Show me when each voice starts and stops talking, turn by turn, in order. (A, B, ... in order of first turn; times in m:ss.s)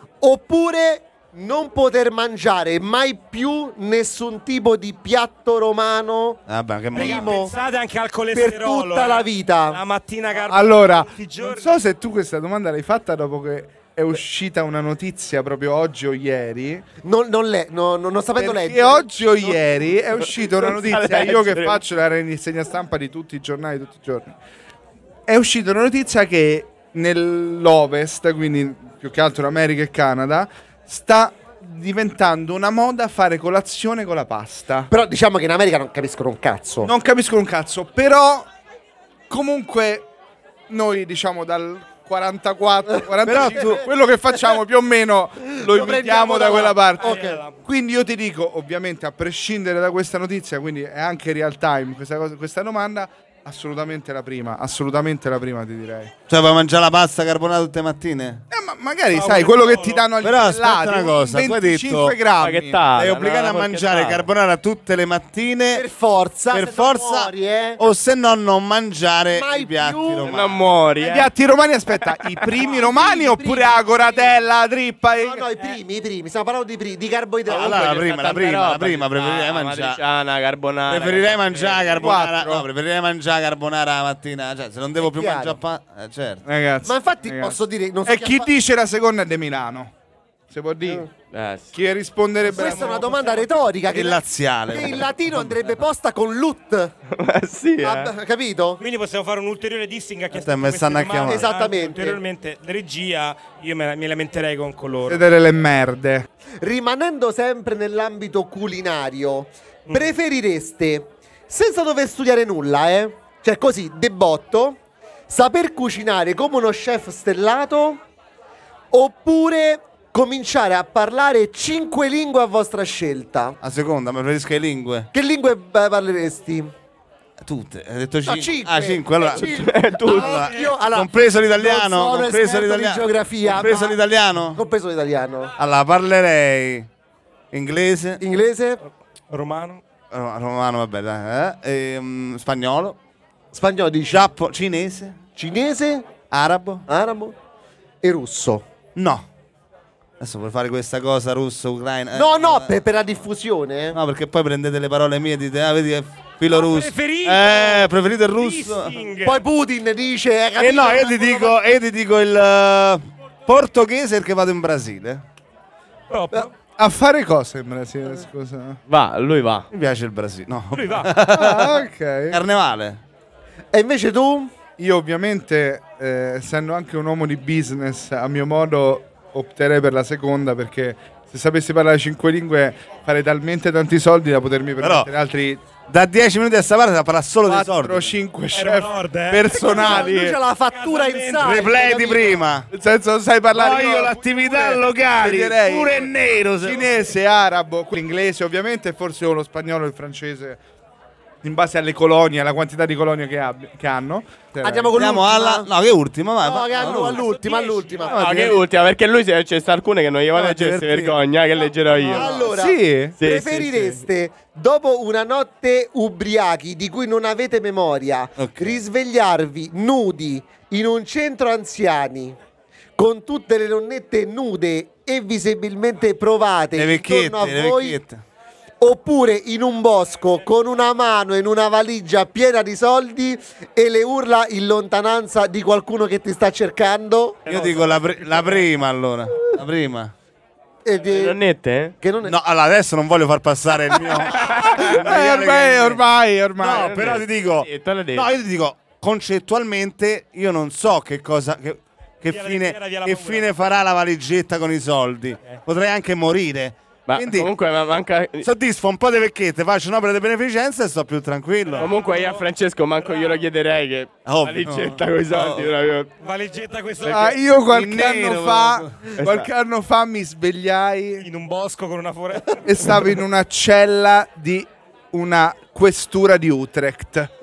0:00.2-0:06.4 A
0:06.5-0:07.4 B
0:06.9-0:07.5 A
0:06.9-0:11.8 C
0:08.3-0:09.8 A
0:10.4-0:16.8 D
0:17.0-0:19.5 A
0:18.4-0:24.3 D
0:20.3-0:21.8 E
0:25.3-0:34.9 D
0:34.9-0:36.9 A
0:36.8-0:38.5 D
0:39.3-0:40.1 D
0:40.7-0:56.1 D
0:43.2-0:43.8 B
0:45.5-0:47.4 A
0:47.0-0:47.6 C
0:56.3-0:58.4 B
0:58.5-1:02.8 D
0:59.1-1:00.0 C
1:00.2-1:02.2 B
1:02.4-1:04.3 E
1:02.9-1:05.8 B
1:05.7-1:07.8 A
1:06.5-1:10.6 B
1:09.3-1:10.4 A
1:10.2-1:11.3 E
1:11.0-1:15.4 D
1:12.6-1:14.3 A
1:15.2-1:18.0 A
1:17.5-1:20.0 B
1:17.5-1:22.1 E
1:20.9-1:26.4 B
1:21.9-1:22.6 D
1:25.0-1:25.6 A
1:26.4-1:29.9 D
1:26.8-1:28.5 A
1:30.5-1:31.1 D
1:31.3-1:31.8 E
1:31.7-1:33.5 D
1:32.4-1:36.9 A
1:32.6-1:33.3 C
1:33.9-1:35.5 B
1:37.1-1:38.1 E
1:37.8-1:38.8 A
1:38.8-1:45.2 C
1:40.3-1:41.5 B
1:41.2-1:42.2 A
1:45.1-1:46.3 D
1:46.6-1:54.8 A
1:49.9-1:50.1 C
1:55.3-1:58.0 A
1:58.9-2:03.6 A
2:03.6-2:05.1 B
2:05.1-2:06.7 A
2:07.4-2:09.5 B
2:08.2-2:14.0 A
2:09.2-2:10.5 E
2:10.1-2:14.6 B
2:10.3-2:10.7 C
2:14.5-2:15.5 A
2:15.6-2:16.9 B
2:17.5-2:18.2 B
2:18.2-2:18.8 A
2:19.3-2:19.8 C
2:20.1-2:23.0 B
2:23.5-2:24.2 A
2:24.1-2:25.2 B
2:25.4-2:26.1 A
2:26.3-2:26.8 B
2:26.9-2:27.4 A
2:28.0-2:28.6 A
2:29.0-2:29.2 B
2:30.2-2:32.7 B
2:32.1-2:34.0 A
2:33.9-2:38.9 B
2:36.5-2:39.4 C
2:39.2-2:41.6 A
2:40.6-2:45.2 B
2:46.1-2:46.5 C
2:46.8-2:48.8 D
2:48.9-2:49.7 E
2:49.7-2:53.0 B
2:50.7-2:51.1 C
2:51.3-2:52.4 D
2:53.7-2:54.6 A
2:54.8-3:05.6 D
3:04.8-3:05.1 B
3:05.9-3:08.1 B
3:07.4-3:10.4 D
3:08.5-3:10.1 C
3:09.6-3:12.4 A
3:10.7-3:11.7 C
3:11.4-3:12.7 B
3:12.7-3:20.6 D
3:13.5-3:16.8 B
3:21.4-3:24.9 D
3:24.6-3:25.7 A
3:24.9-3:27.2 B
3:26.4-3:28.2 A
3:26.7-3:28.6 C
3:28.1-3:28.6 D
3:28.1-3:32.4 E
3:30.3-3:31.2 B
3:32.0-3:42.4 A
3:32.1-3:33.2 D
3:33.2-3:34.0 E
3:38.4-3:38.8 B
3:43.0-3:48.0 A
3:46.7-3:48.2 B
3:48.8-3:57.6 A
3:57.5-4:00.1 B
3:57.6-3:58.5 C
4:00.8-4:01.4 A
4:01.0-4:01.9 E
4:02.0-4:02.3 A
4:02.2-4:06.0 B
4:04.3-4:05.0 E
4:04.7-4:07.1 D
4:06.6-4:17.5 B
4:06.7-4:08.3 E
4:12.2-4:13.4 C
4:17.1-4:18.5 E
4:18.4-4:21.9 B
4:21.7-4:22.4 C
4:21.8-4:26.1 E
4:23.0-4:23.4 C
4:24.2-4:25.7 B
4:26.2-4:27.4 C
4:27.0-4:31.2 D
4:27.7-4:28.9 B
4:29.2-4:29.5 E
4:31.2-4:32.6 C
4:32.6-4:37.3 D